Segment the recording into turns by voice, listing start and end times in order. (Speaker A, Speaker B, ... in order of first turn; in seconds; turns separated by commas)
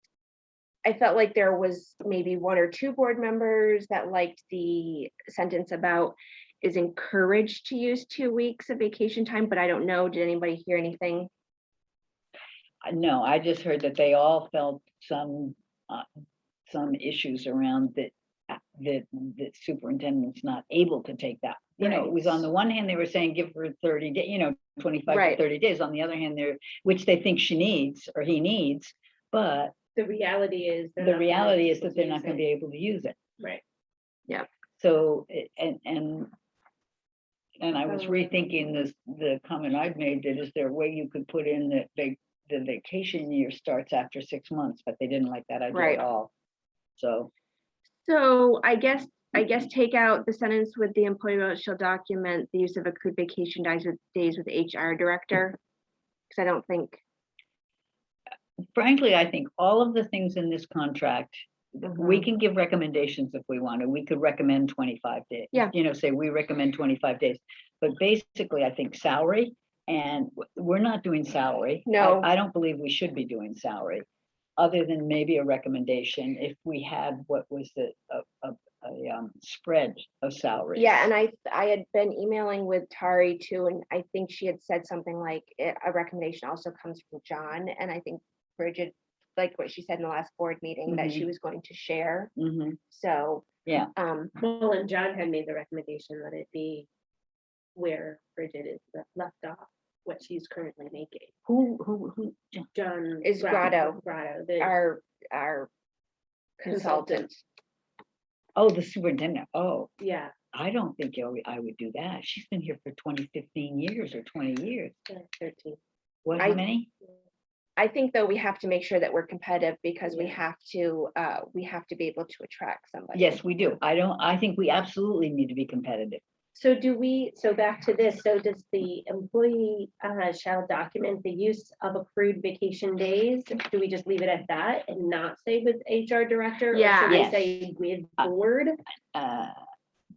Speaker A: 0.8-11.3, Speaker B: 12.8-16.1, Speaker B: 16.7-29.7, Speaker C: 21.8-22.4, Speaker A: 25.1-25.4, Speaker C: 30.0-32.4, Speaker B: 31.0-33.2, Speaker B: 34.8-36.3, Speaker B: 37.6-46.3, Speaker C: 37.9-38.3, Speaker A: 45.7-46.0, Speaker B: 47.0-47.3, Speaker A: 48.0-55.6, Speaker A: 56.3-57.0, Speaker B: 58.8-74.1, Speaker A: 71.8-72.3, Speaker B: 74.6-81.1, Speaker A: 80.8-92.3, Speaker B: 90.9-91.3, Speaker B: 92.4-92.8, Speaker A: 92.9-94.3, Speaker B: 93.7-93.9, Speaker C: 94.4-96.9, Speaker C: 97.8-101.3, Speaker B: 101.5-102.7, Speaker C: 102.7-104.8, Speaker A: 103.2-104.0, Speaker A: 104.6-105.7, Speaker A: 106.6-107.4, Speaker C: 106.7-107.3, Speaker B: 108.6-109.9, Speaker C: 110.0-110.3, Speaker B: 110.5-114.9, Speaker C: 115.1-115.8, Speaker B: 116.2-116.9, Speaker A: 116.4-116.6, Speaker A: 117.8-123.4, Speaker C: 120.1-120.4, Speaker B: 123.1-126.2, Speaker C: 126.5-138.8, Speaker A: 136.7-137.2, Speaker B: 137.1-138.3, Speaker B: 139.1-139.6